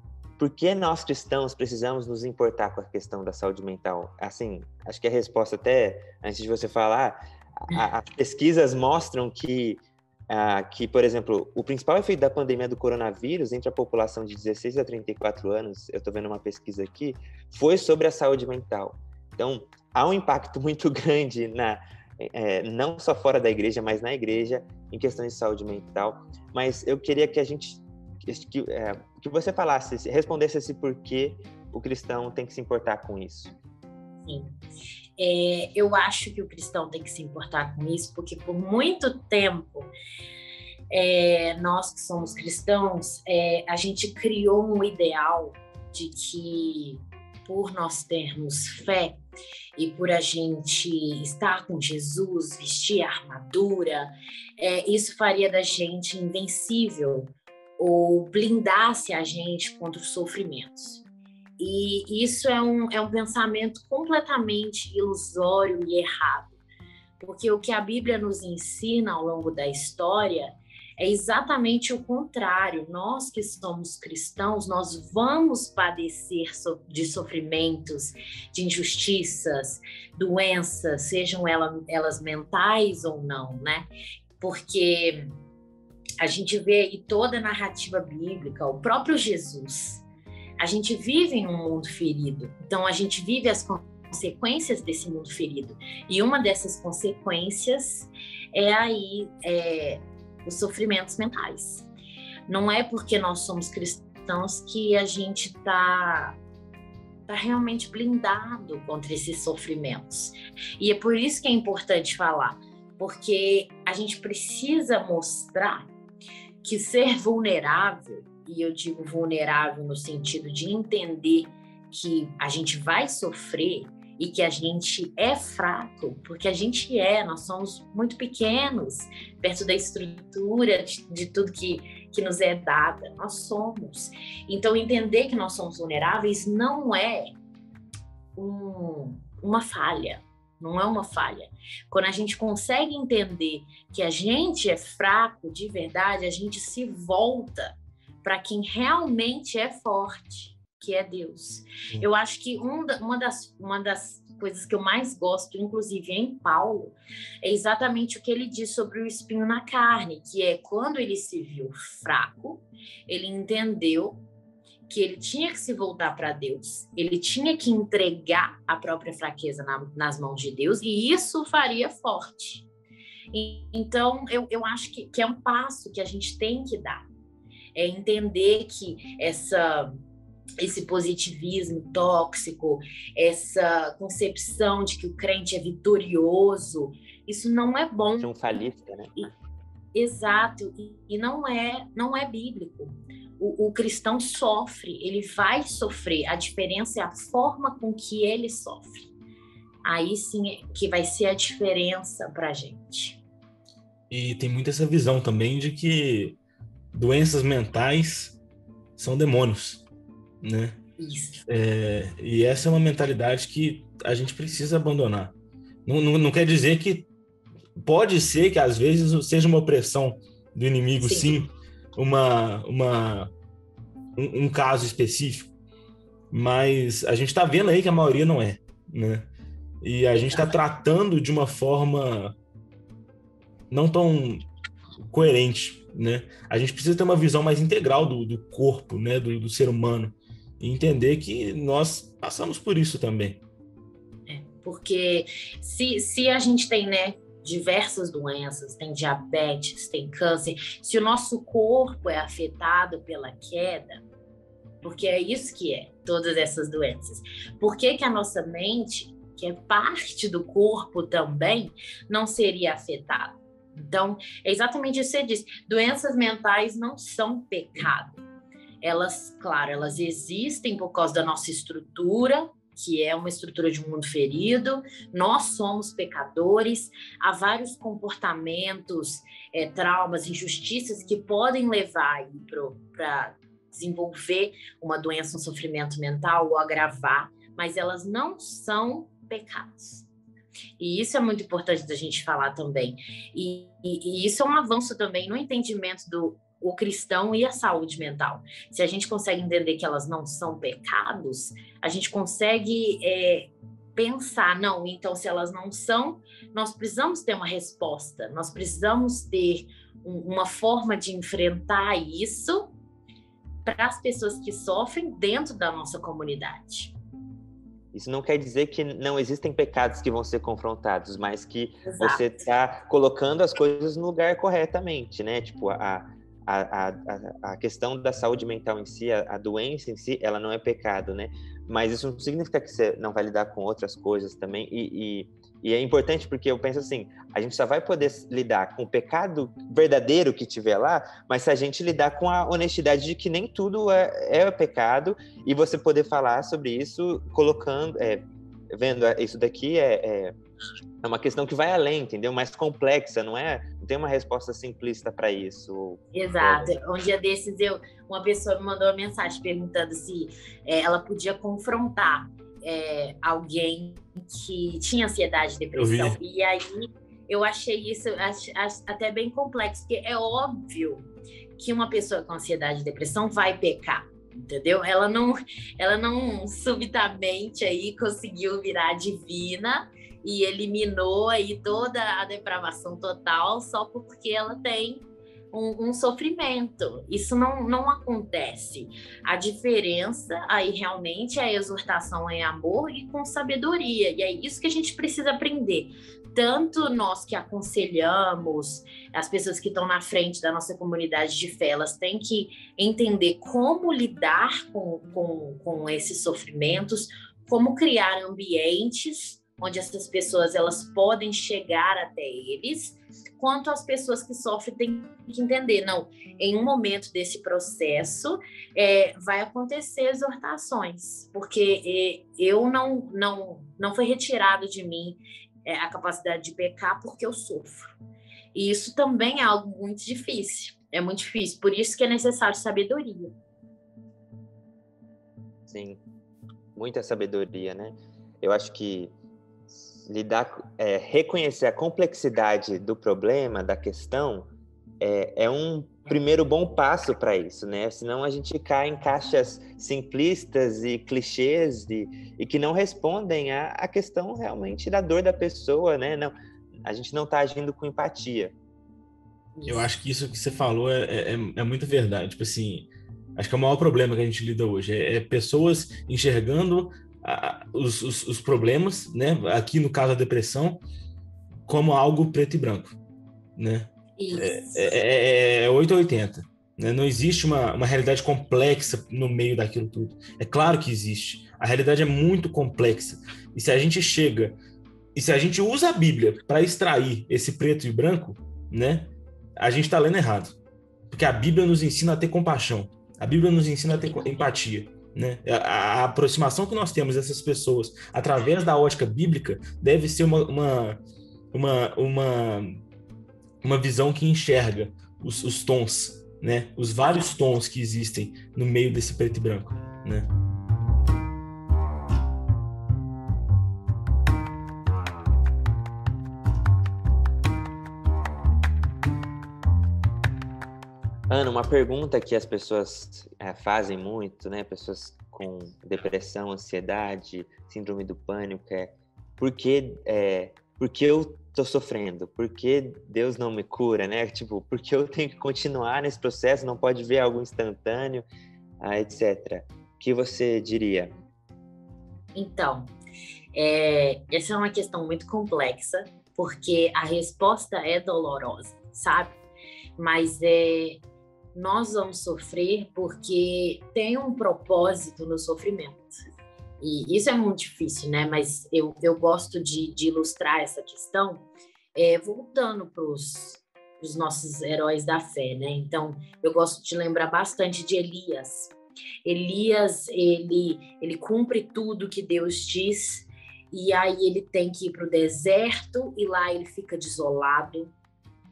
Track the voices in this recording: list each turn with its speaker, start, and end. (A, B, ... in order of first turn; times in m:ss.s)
0:00.4-0:33.5 A
0:34.2-0:34.6 B
0:35.2-0:39.9 B
0:40.9-0:49.2 B
0:49.8-1:01.0 B
1:01.6-1:06.5 B
1:07.2-1:23.9 B
1:24.4-1:25.2 B
1:26.2-1:30.0 B
1:30.6-1:41.9 B
1:42.5-1:46.4 B
1:47.3-1:55.9 B
1:56.6-2:17.3 B
2:18.4-2:44.2 B
2:44.9-2:52.6 B
2:53.3-2:57.0 B
2:57.7-2:59.9 B
3:00.6-3:08.3 B
3:08.2-3:09.3 A
3:09.9-3:19.1 B
3:19.8-3:23.2 B
3:24.1-3:26.4 C
3:26.9-3:28.4 C
3:29.0-3:29.8 C
3:30.4-3:30.8 C
3:31.0-3:31.4 B
3:31.5-3:35.3 C
3:35.8-3:37.1 C
3:37.8-3:43.3 C
3:41.0-3:41.4 B
3:44.2-3:45.5 C
3:46.3-3:49.3 C
3:49.8-3:52.3 C
3:53.7-3:54.4 C
3:55.1-4:03.4 C
4:04.3-4:14.0 B
4:14.8-4:28.2 B
4:28.8-4:50.1 B
4:50.8-5:12.7 B
5:13.6-5:16.9 B
5:17.9-5:50.3 A
5:21.8-5:22.3 B
5:51.0-5:56.7 A
5:56.1-6:11.0 B
6:05.8-6:06.2 C
6:11.6-7:07.9 B
7:08.5-7:13.3 B
7:15.7-7:16.0 A
7:16.8-7:19.1 A
7:20.1-7:24.5 A
7:25.0-7:36.3 A
7:36.8-7:38.5 A
7:39.6-7:39.9 B
7:39.6-7:50.8 C
7:51.7-7:52.9 C
7:53.6-8:04.6 C
7:54.2-7:55.0 B
8:05.1-8:10.5 C
8:11.1-8:21.0 C
8:21.5-8:22.8 C
8:23.6-8:30.3 C
8:41.3-8:58.2 A
8:58.8-9:01.2 A
9:02.3-9:02.9 B
9:03.5-9:09.4 B
9:10.0-9:11.0 B
9:11.5-9:16.2 B
9:16.8-9:28.7 B
9:29.2-9:37.9 B